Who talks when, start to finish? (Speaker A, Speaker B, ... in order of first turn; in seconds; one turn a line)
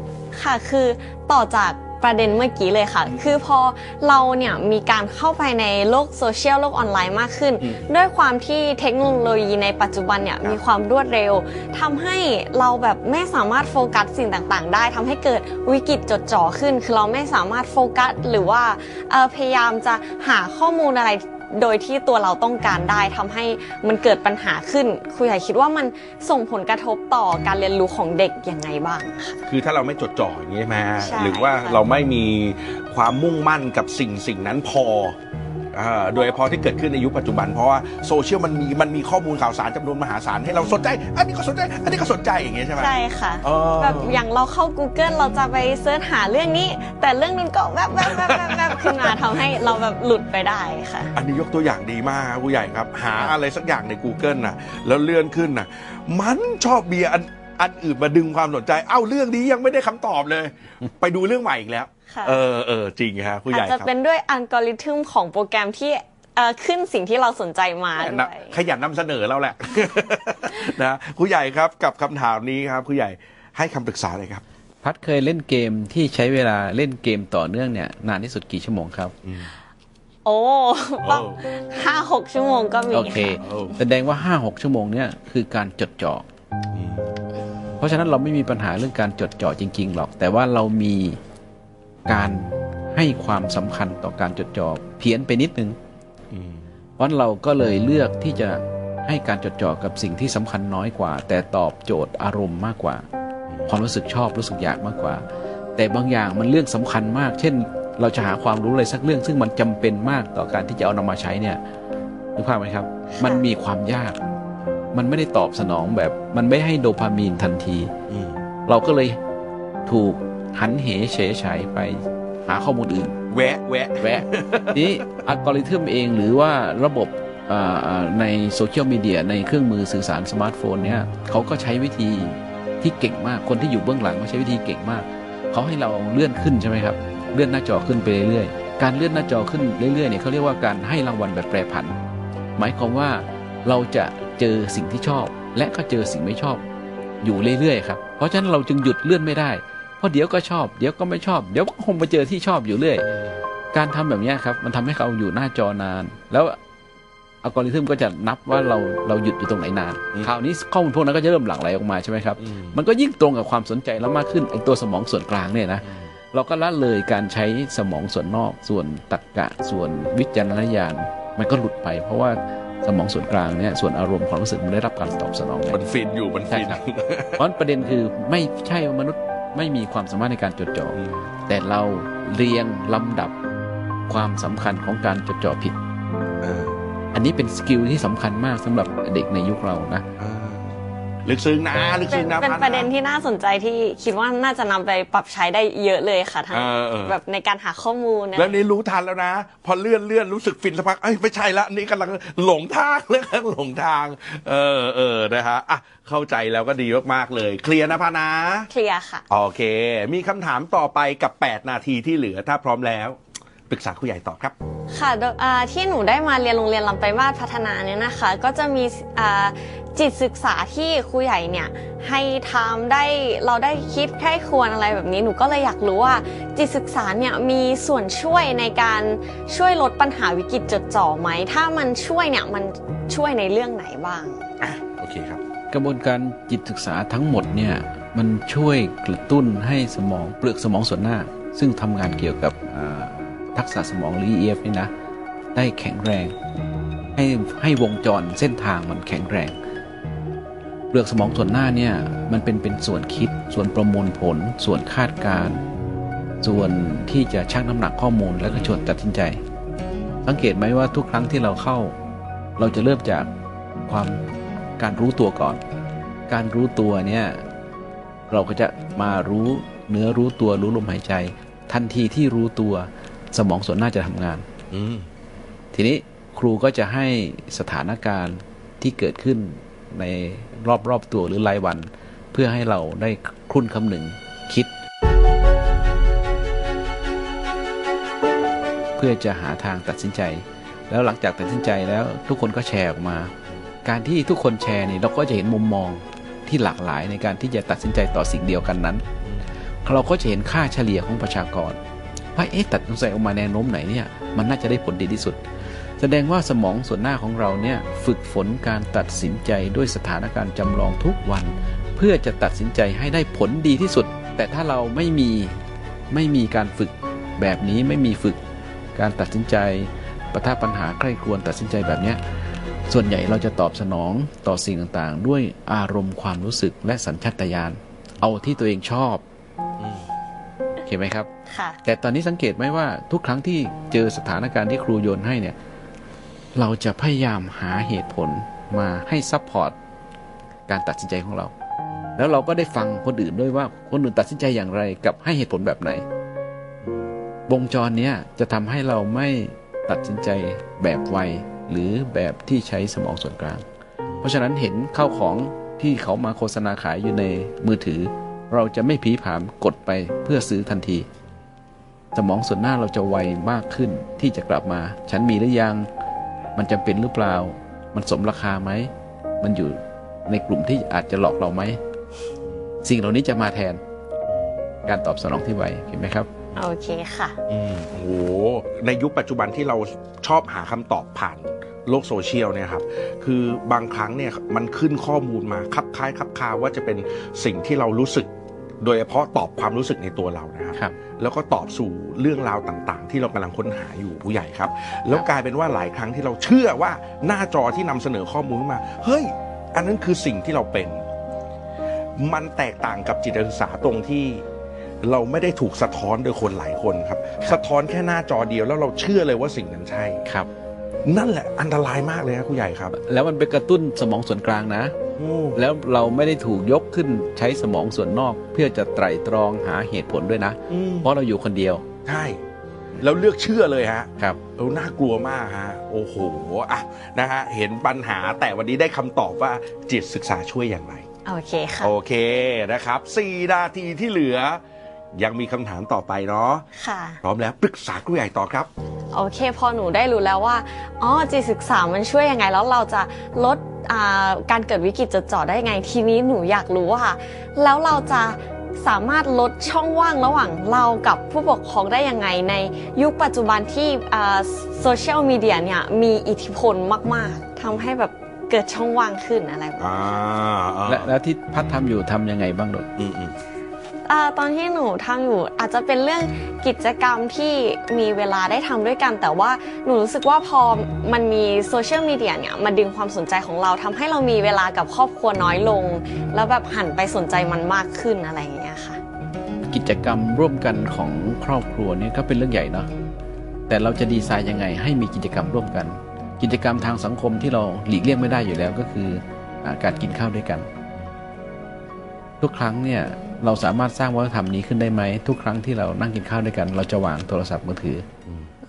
Speaker A: 0.3-29.4
Speaker B: 7.6-7.9
Speaker B: 29.5-35.1
Speaker A: 31.0-31.8
Speaker B: 35.7-44.2
Speaker A: 42.8-51.1
Speaker B: 48.0-49.4
Speaker B: 51.1-63.9
Speaker A: 62.1-62.4
Speaker A: 63.5-68.5
Speaker B: 68.0-74.4
Speaker C: 74.8-79.1
Speaker B: 79.2-79.5
Speaker A: 80.2-83.4
Speaker B: 81.0-81.4
Speaker C: 82.9-86.2
Speaker B: 83.4-83.8
Speaker B: 86.7-87.2
Speaker C: 87.8-91.2
Speaker C: 92.1-95.8
Speaker B: 96.3-96.7
Speaker C: 97.0-103.0
Speaker B: 103.5-103.7
Speaker C: 103.7-105.2
Speaker C: 105.8-111.6
Speaker C: 112.3-114.2
Speaker A: 113.1-113.4
Speaker C: 114.9-117.9
Speaker B: 118.1-118.4
Speaker C: 118.7-119.2
Speaker C: 119.8-123.1
Speaker B: 123.3-125.3
Speaker C: 124.0-141.9
Speaker C: 142.6-146.6
Speaker C: 147.2-153.1
Speaker B: 153.0-153.4
Speaker C: 153.7-156.6
Speaker C: 157.4-175.8
Speaker B: 162.4-162.8
Speaker B: 165.8-166.1
Speaker B: 175.7-177.4
Speaker C: 176.5-176.8
Speaker C: 177.4-183.3
Speaker B: 180.9-181.2
Speaker C: 184.1-185.8
Speaker B: 186.4-186.8
Speaker C: 187.1-190.1
Speaker B: 190.2-192.9
Speaker A: 192.1-198.6
Speaker B: 196.5-197.2
Speaker B: 198.3-208.7
Speaker A: 208.7-209.2
Speaker B: 209.3-214.5
Speaker A: 214.9-234.4
Speaker B: 234.6-235.4
Speaker C: 235.7-244.9
Speaker C: 245.5-246.3
Speaker C: 247.2-249.6
Speaker C: 250.9-255.6
Speaker C: 256.4-259.4
Speaker C: 260.2-261.9
Speaker C: 262.6-263.3
Speaker C: 263.9-264.2
Speaker C: 264.8-265.6
Speaker C: 266.3-267.4
Speaker C: 268.3-274.5
Speaker B: 274.7-275.1
Speaker C: 275.7-284.7
Speaker C: 289.0-299.0
Speaker C: 299.8-301.8
Speaker C: 302.4-305.4
Speaker C: 306.0-315.6
Speaker C: 316.1-318.4
Speaker C: 318.9-322.2
Speaker C: 322.9-329.2
Speaker B: 329.8-330.1
Speaker C: 330.9-331.3
Speaker A: 331.5-331.8
Speaker C: 331.8-335.6
Speaker C: 336.5-339.8
Speaker C: 340.7-341.5
Speaker C: 342.1-346.0
Speaker B: 346.8-347.1
Speaker C: 347.5-353.6
Speaker C: 354.2-361.1
Speaker C: 362.1-365.9
Speaker C: 366.5-368.9
Speaker C: 369.4-371.8
Speaker C: 372.8-373.8
Speaker B: 374.3-374.5
Speaker C: 374.9-376.3
Speaker A: 376.6-377.4
Speaker B: 377.5-388.3
Speaker B: 388.8-401.0
Speaker B: 402.2-404.4
Speaker B: 405.0-410.2
Speaker B: 411.0-412.9
Speaker C: 412.9-414.9
Speaker B: 415.1-415.6
Speaker C: 415.5-421.8
Speaker B: 420.7-421.1
Speaker B: 422.1-422.4
Speaker B: 423.0-431.0
Speaker A: 431.2-431.9
Speaker B: 431.8-434.6
Speaker B: 435.1-436.7
Speaker A: 436.8-437.2
Speaker B: 437.2-438.7
Speaker A: 439.1-459.9
Speaker B: 459.8-461.1
Speaker C: 460.9-462.9
Speaker B: 463.0-463.3
Speaker A: 464.1-479.0
Speaker C: 479.7-482.9
Speaker C: 483.7-490.7
Speaker C: 492.4-498.1